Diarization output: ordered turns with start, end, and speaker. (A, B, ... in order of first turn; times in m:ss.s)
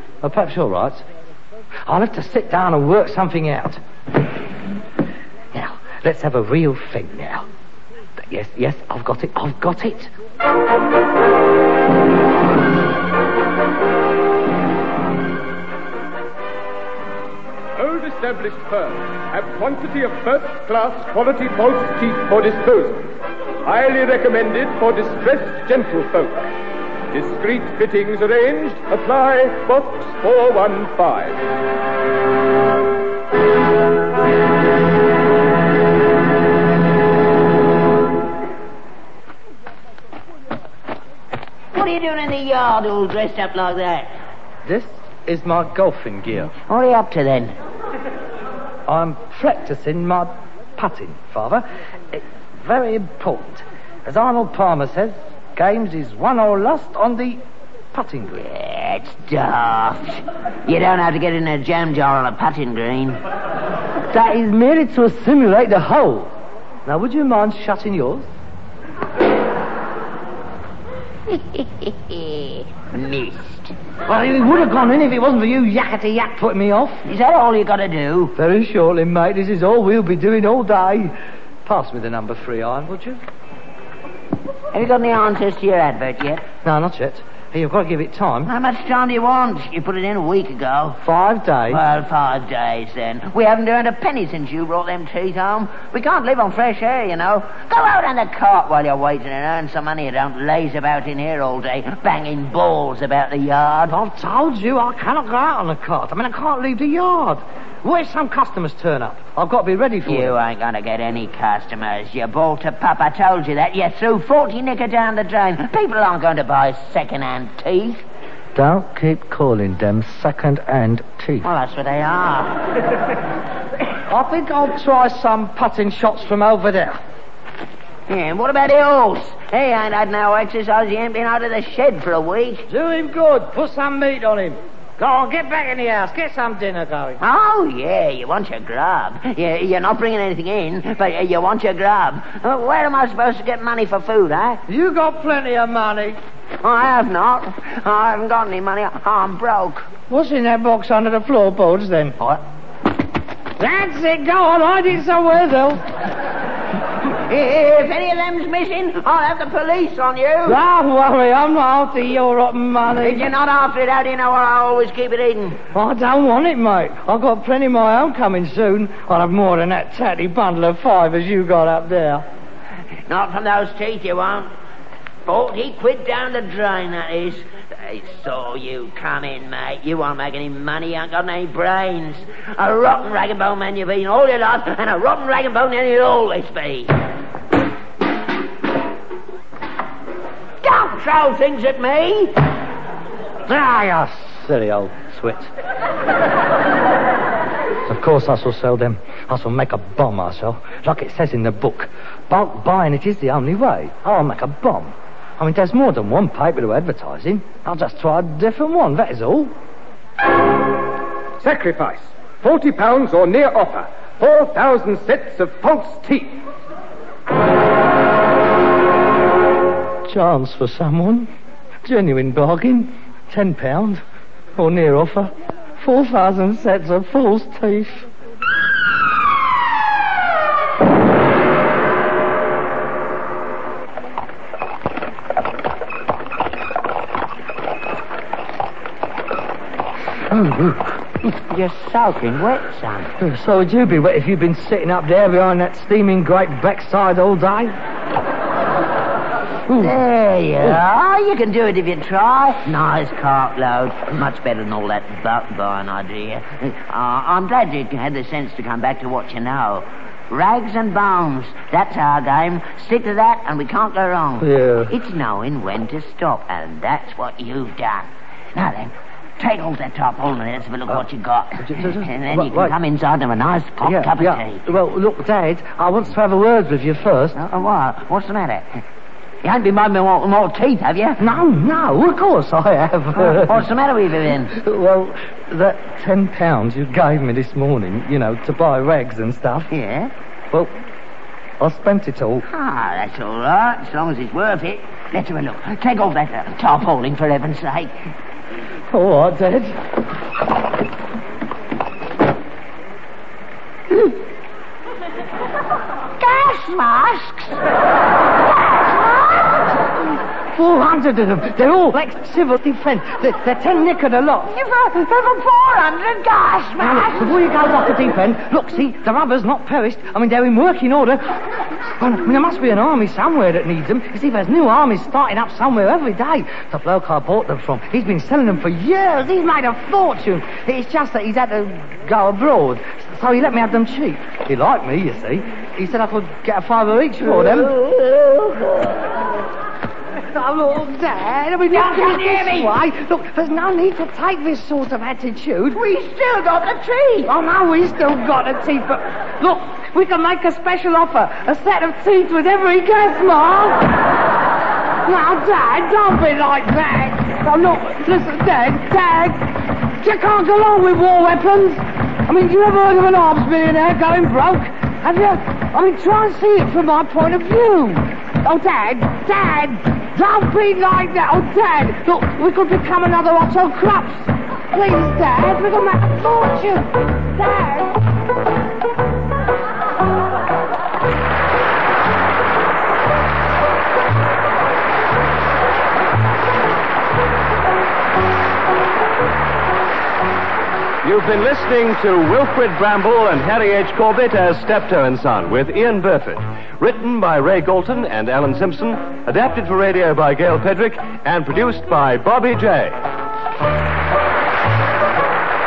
0:00.2-0:01.0 A
0:01.8-0:03.8 A
0:05.5-0:07.4 A
0:08.2-0:10.1 A
0:17.8-0:23.1 B
0:23.6-0:26.4 B
0:27.1-0:31.4 B
0:41.7-0:44.1 C
0:44.6-0:46.6 A
0:46.6-0:47.5 C
0:48.9-0:57.4 A
0:57.9-0:58.4 A
0:58.4-1:03.2 C
1:04.1-1:06.3 A
1:06.8-1:08.3 A
1:11.3-1:13.7 C
1:14.1-1:17.0 A
1:17.0-1:18.3 C
1:18.4-1:21.1 A
1:21.6-1:23.2 A
1:24.7-1:26.4 C
1:26.6-1:28.5 A
1:28.4-1:31.0 C
1:31.0-1:31.8 A
1:31.7-1:43.9 C
1:43.9-1:50.4 A
1:50.1-1:58.0 C
1:58.5-2:01.5 A
2:01.4-2:02.6 C
2:04.1-2:07.0 A
2:08.1-2:12.6 C
2:12.7-2:17.2 A
2:17.2-2:24.6 C
2:24.7-2:26.2 A
2:26.6-2:29.9 C
2:30.1-2:32.1 A
2:33.6-2:35.9 A
2:37.1-2:40.6 C
2:40.4-2:43.3 A
2:43.0-2:45.6 C
2:45.7-2:52.2 A
2:53.1-2:54.5 C
2:55.2-3:07.0 C
3:10.6-3:12.4 C
3:13.5-3:15.5 A
3:17.8-3:29.5 A
3:31.4-3:36.4 B
3:40.0-3:41.3 A
3:41.8-3:44.0 A
3:44.6-3:48.1 A
4:00.3-4:00.8 A
4:01.5-4:03.1 C
4:03.2-4:07.7 A
4:09.7-4:09.9 A
4:09.7-4:34.6 C
4:24.4-4:24.9 A
4:31.6-4:32.8 A
4:33.8-4:37.4 A
4:37.4-4:38.6 C
4:39.4-4:41.2 C
4:41.2-4:43.7 A
4:43.2-4:44.6 C
4:44.5-4:49.7 A
4:49.7-4:50.1 C
4:51.6-4:52.4 A
4:52.5-4:58.0 C
4:58.9-4:59.8 A
5:06.2-5:07.6 C
5:08.5-5:09.7 C
5:10.5-5:14.5 A
5:14.5-5:17.3 C
5:16.8-5:21.3 A
5:22.0-5:37.7 A
5:37.2-5:39.2 C
5:40.3-5:45.8 A
5:41.7-5:42.7 C
5:45.7-5:47.3 C
5:47.2-5:54.0 A
5:55.0-6:18.0 A
6:31.0-6:43.1 D